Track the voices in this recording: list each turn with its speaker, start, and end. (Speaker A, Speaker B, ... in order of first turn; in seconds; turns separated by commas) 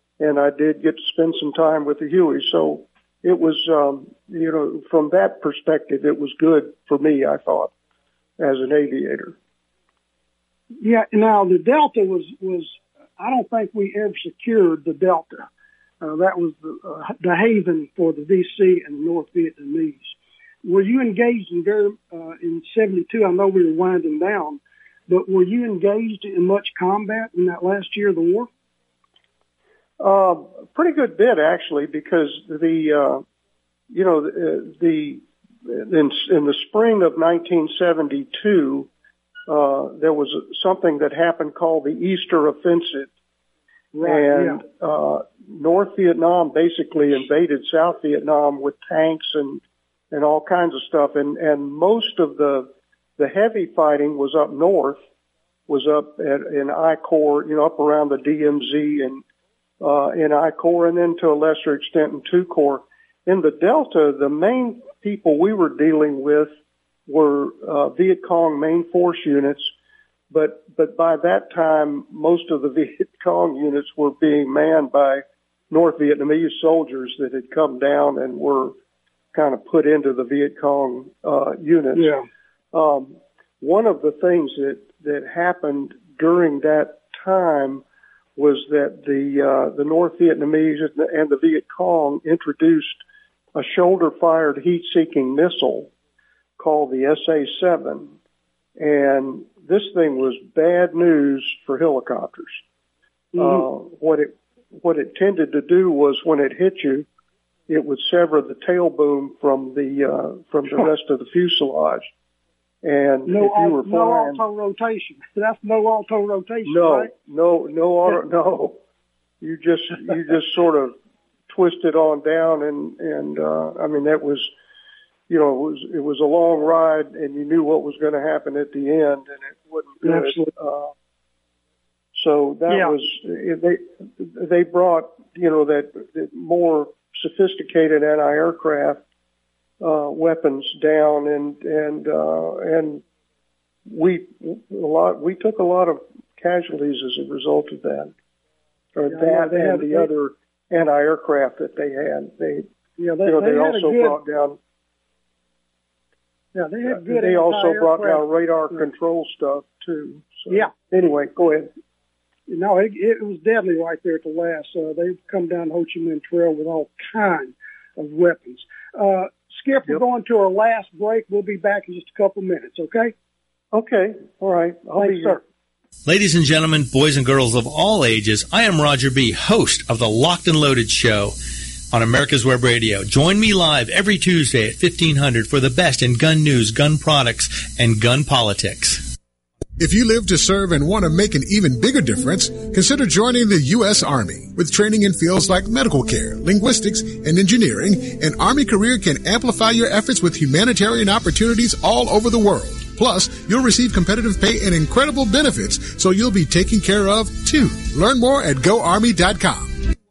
Speaker A: 0.2-7.7, Speaker A: 8.4-9.4, Speaker B: 10.8-15.5, Speaker B: 16.0-28.5, Speaker A: 30.0-33.2, Speaker A: 33.9-38.9, Speaker A: 39.5-43.1, Speaker B: 43.9-44.6, Speaker A: 44.0-55.0, Speaker A: 55.7-59.2, Speaker A: 59.8-66.5, Speaker A: 67.1-69.7, Speaker A: 70.3-78.8, Speaker A: 79.3-82.1, Speaker B: 82.0-82.2, Speaker A: 82.7-87.8, Speaker A: 88.4-93.0, Speaker A: 93.5-95.9, Speaker A: 96.6-98.1, Speaker A: 98.8-102.6, Speaker B: 103.3-103.7, Speaker A: 103.4-107.1, Speaker A: 107.7-112.1, Speaker A: 112.8-114.4, Speaker B: 113.3-117.1, Speaker A: 116.7-118.8, Speaker A: 119.4-121.0, Speaker A: 121.5-124.5, Speaker A: 125.3-130.9, Speaker B: 130.0-130.5, Speaker A: 132.1-139.0, Speaker A: 139.8-143.0, Speaker A: 143.9-148.1, Speaker A: 149.0-152.7, Speaker B: 149.1-150.1, Speaker B: 153.0-154.2, Speaker A: 153.2-154.6, Speaker B: 156.6-158.8, Speaker A: 156.9-161.7, Speaker B: 162.5-173.1, Speaker A: 173.7-175.4, Speaker B: 175.0-175.4, Speaker C: 176.1-181.4, Speaker C: 181.9-189.1, Speaker D: 189.8-209.8